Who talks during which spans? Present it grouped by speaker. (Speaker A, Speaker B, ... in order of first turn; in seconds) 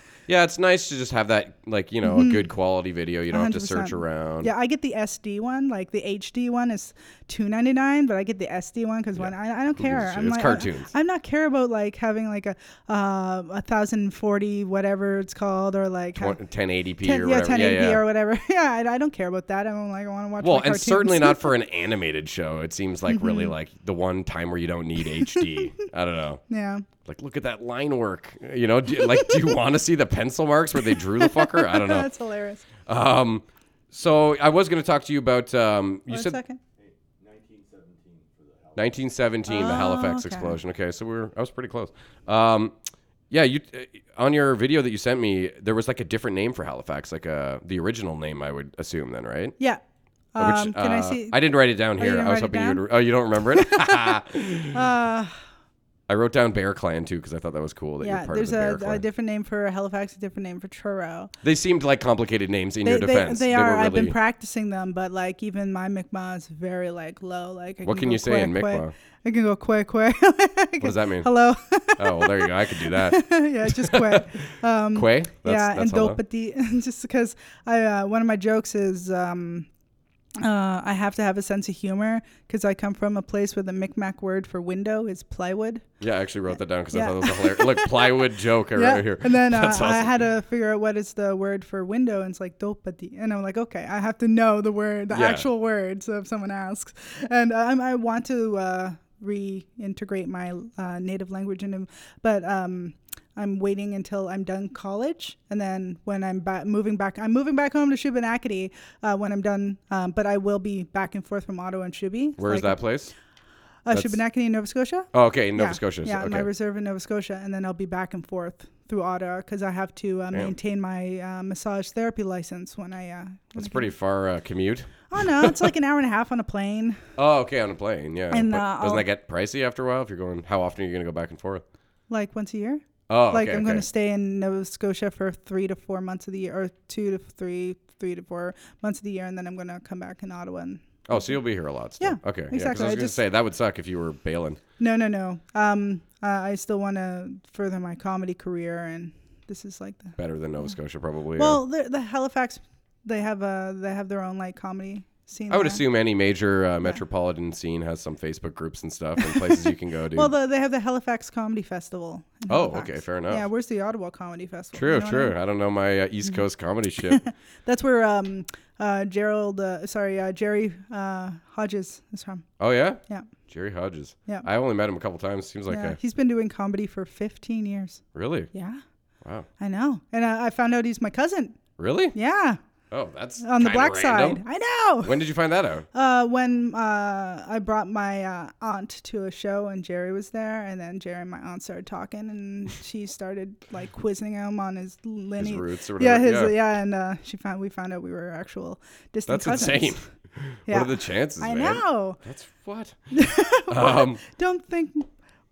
Speaker A: 0.3-4.5, 9.2-10.9, 16.2-18.0, 20.4-26.4, 27.1-32.1, 32.9-36.4, 38.8-42.8, 43.3-49.5, 50.4-54.8, 56.1-59.0, 61.4-64.2, 67.8-68.9, 70.8-71.3, 72.0-74.4, 74.9-76.2, 86.0-90.2, 95.1-95.5, 112.4-113.1, 113.9-114.2, 115.1-116.5, 123.5-125.7, 127.2-131.6, 133.1-133.8, 141.1-144.6, 150.2-151.6, 155.5-160.3, 162.5-163.4, 164.7-167.2, 172.6-176.0, 178.1-178.5, 179.2-179.5, 181.8-182.1, 182.9-184.4, 185.0-185.8, 195.4-196.5, 199.3-203.0, 203.7-204.2
Speaker B: 2.0-2.4, 3.3-16.4, 17.0-21.5, 23.1-23.5, 25.2-25.8, 26.5-26.8, 29.1-29.4, 30.9-32.7, 36.1-36.6, 39.5-40.6, 50.3-51.4, 52.0-52.8, 53.4-55.4, 58.0-61.3, 62.8-79.7, 80.4-85.8, 86.9-88.2, 88.7-112.8, 113.8-123.9, 125.1-127.0, 128.3-129.0, 132.1-141.4, 142.0-143.2, 144.8-150.7, 151.3-155.8, 159.2-165.3, 167.1-172.4, 175.7-178.8, 179.6-181.6, 182.1-182.6, 183.4-185.2, 185.9-200.0, 200.7-202.2, 203.1-205.1
Speaker C: 36.8-39.1